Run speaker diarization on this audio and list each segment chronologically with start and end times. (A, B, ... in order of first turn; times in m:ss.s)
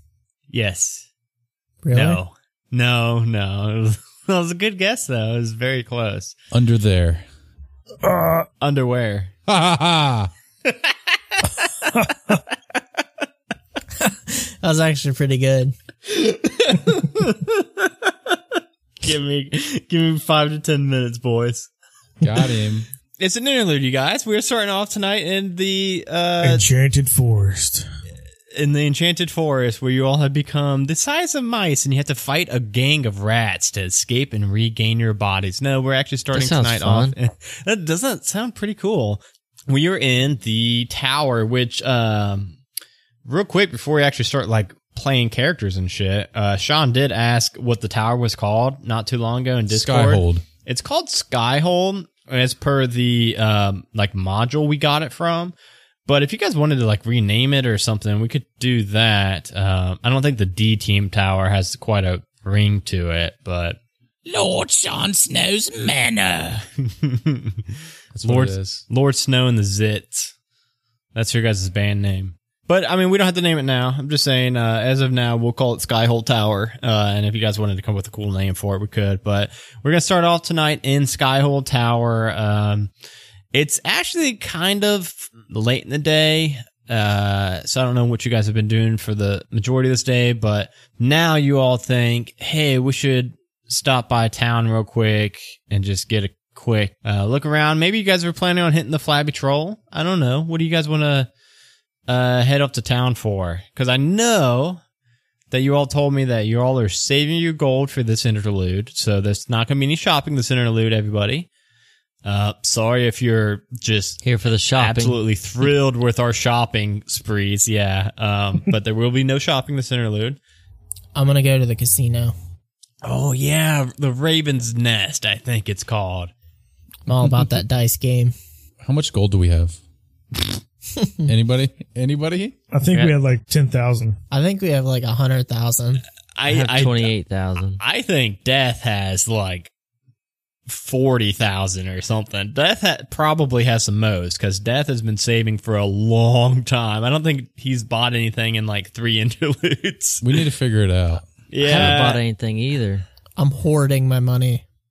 0:00.5-0:01.1 A
0:01.8-0:02.2 B
0:01.9-0:06.4 A
0:06.5-0:07.2 C
0:08.0-0:08.5 D
0:08.6-0:09.3 A
0:09.5-0:10.3 C
0:10.6-0:12.0 A
0:14.0-0:15.7 B
0:16.1-0:18.4 A
0:19.0-0:21.7 A
0:22.2-0:22.9 C
0:23.2-0:26.7 A
0:26.4-0:27.9 D
0:28.6-0:42.6 A
0:36.3-0:37.1 E
0:43.2-0:55.5 A
0:49.7-0:50.4 C
0:56.0-1:03.8 A
1:04.3-1:06.5 C
1:06.9-1:07.6 A
1:08.1-1:08.8 C
1:08.2-1:10.3 A
1:11.1-1:22.9 A
1:23.5-1:41.3 A
1:42.1-1:44.8 A
1:45.5-1:51.5 A
1:52.2-1:54.2 A
1:54.2-1:55.2 E
1:54.7-2:00.4 A
2:01.2-2:02.3 B
2:03.0-2:06.3 A
2:07.1-2:08.3 B
2:08.8-2:09.8 C
2:11.2-2:12.5 C
2:12.7-2:14.2 D
2:14.3-2:16.0 B
2:16.4-2:17.1 A
2:16.5-2:17.8 E
2:17.8-2:19.7 A
2:20.7-2:30.2 A
2:30.2-2:31.3 C
2:31.5-2:32.2 A
2:31.6-2:33.0 E
2:33.4-2:34.6 B